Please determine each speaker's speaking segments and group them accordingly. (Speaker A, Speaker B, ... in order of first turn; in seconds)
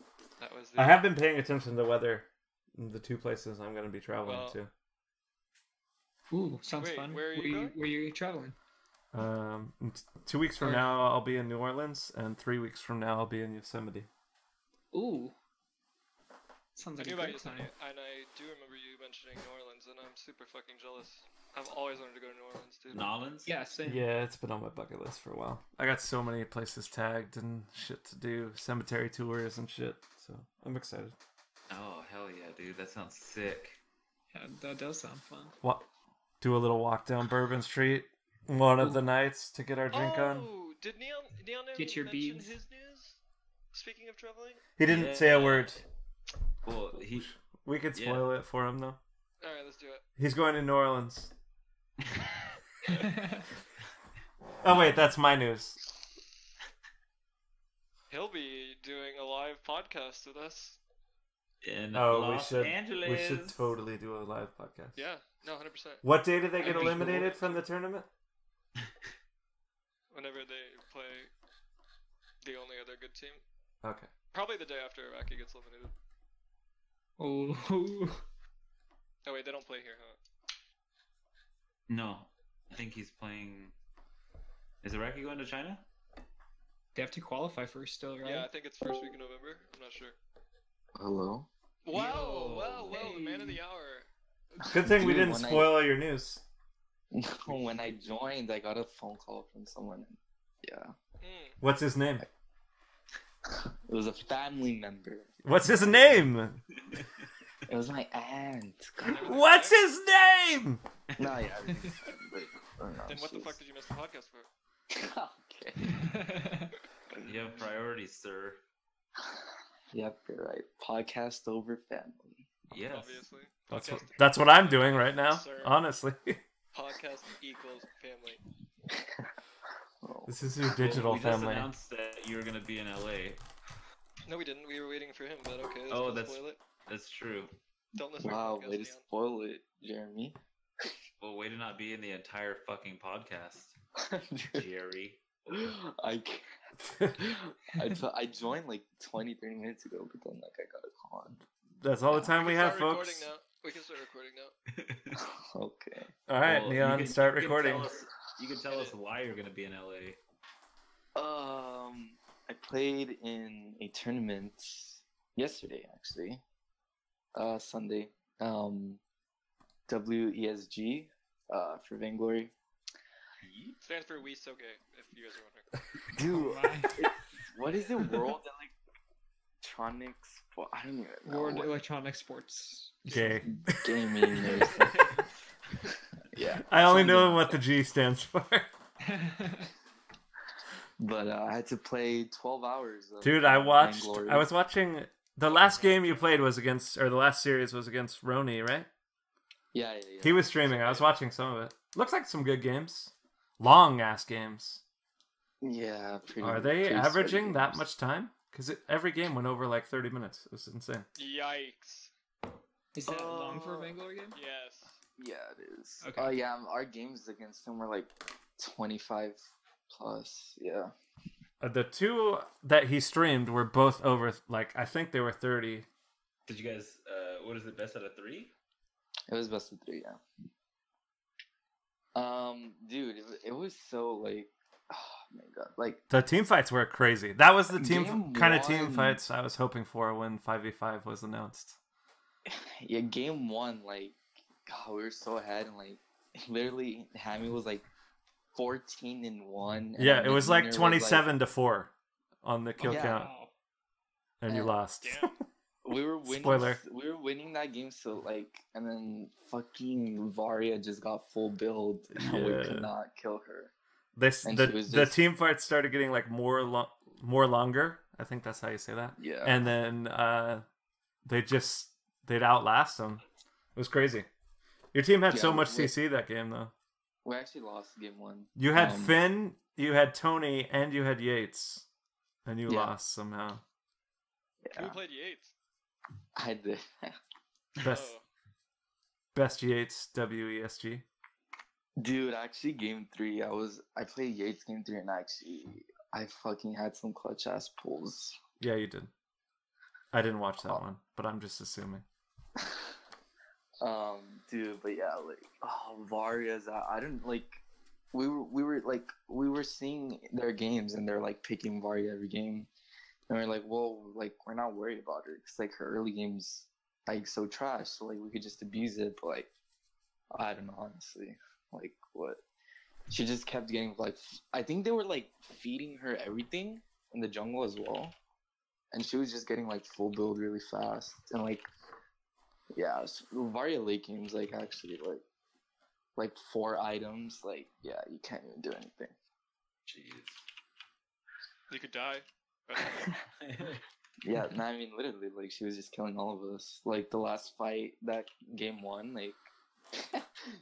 Speaker A: 0.4-1.0, 4.2-4.6, 6.7-7.8, 17.0-23.1, 39.9-43.2, 43.7-44.6, 49.4-50.0, 58.1-60.8, 65.0-66.0, 66.6-67.3, 70.1-71.3, 72.4-73.4, 74.3-75.9, 79.2-80.2, 88.2-90.2, 91.8-94.1, 101.2-101.6, 109.0-109.8, 113.1-114.5, 122.9-125.8, 126.7-128.4, 134.2-136.6, 137.9-139.0, 152.1-154.5, 158.7-158.9, 173.8-175.7, 183.1-183.4, 195.5-196.2, 200.8-201.0, 211.2-212.1, 214.3-215.0, 255.0-255.3, 284.7-285.5, 287.8-288.2, 341.7-343.1
Speaker B: 0.8-4.7, 9.1-14.1, 23.9-31.1, 36.4-40.5, 44.8-45.8, 47.1-49.0, 50.2-51.3, 54.6-55.8, 61.9-65.0, 66.0-68.1, 73.8-74.1, 94.6-96.4, 101.6-102.2, 105.4-106.6, 109.2-110.8, 123.7-126.4, 130.3-131.7, 146.8-147.2, 151.8-153.3, 156.3-157.9, 183.1-184.6, 186.7-188.7, 193.2-198.9, 200.2-204.8, 206.4-211.1, 221.6-225.9, 236.1-241.8, 250.0-251.9, 252.4-253.3, 254.4-255.3, 256.2-256.8, 262.1-262.9, 264.1-270.6, 271.2-273.2, 273.7-274.3, 274.9-276.7, 278.6-281.9, 282.4-283.6, 287.8-288.1, 289.3-291.0, 298.6-299.1, 300.1-302.0
Speaker C: 6.3-8.6, 10.6-11.0, 14.9-15.3, 16.7-17.7, 23.4-24.0, 34.3-35.5, 41.7-42.5, 66.6-67.5, 77.2-78.2, 86.9-88.5, 92.9-93.6, 116.0-116.7, 176.2-177.1, 181.2-183.3, 189.0-189.7, 212.9-214.4, 216.0-216.4, 252.8-253.5
Speaker D: 22.9-23.5, 31.7-33.8, 44.9-45.8, 46.6-47.3, 47.9-48.3, 54.7-55.0, 61.6-63.7, 81.9-83.7, 84.8-85.8, 91.9-93.2, 106.8-107.2, 111.1-111.5, 117.2-118.6, 122.7-123.3, 130.8-133.4, 135.9-137.5, 141.2-143.8, 144.5-145.4, 154.7-155.2, 156.4-160.2, 173.4-173.8, 226.4-228.5, 339.9-340.4, 343.4-343.8
Speaker E: 90.9-91.5, 94.6-95.8, 97.1-100.9, 103.5-106.2, 107.7-109.3, 111.2-113.6, 114.9-116.1, 119.9-122.5, 128.9-129.3, 130.0-131.0, 138.2-140.9, 144.0-144.7, 145.5-146.5, 147.0-151.4, 155.2-156.1, 161.2-166.4, 167.3-169.0, 169.9-172.5, 176.1-178.7, 179.6-181.8, 183.4-185.1, 186.2-187.6, 191.0-194.5, 199.7-200.8, 205.6-207.8, 213.0-214.0, 215.2-220.9, 229.3-230.2, 232.1-236.0, 237.7-239.2, 242.4-247.8, 248.5-251.2, 252.8-253.2, 254.5-254.7, 255.8-263.7, 264.4-265.2, 269.2-269.7, 275.3-275.9, 277.2-279.1, 282.7-282.9, 284.6-285.0, 286.4-287.2, 292.0-298.4, 303.8-307.6, 308.1-312.7, 313.3-319.5, 320.3-322.4, 323.1-328.1, 328.9-331.6, 332.7-335.2, 336.1-339.1, 342.8-343.1, 344.2-349.4, 349.9-350.2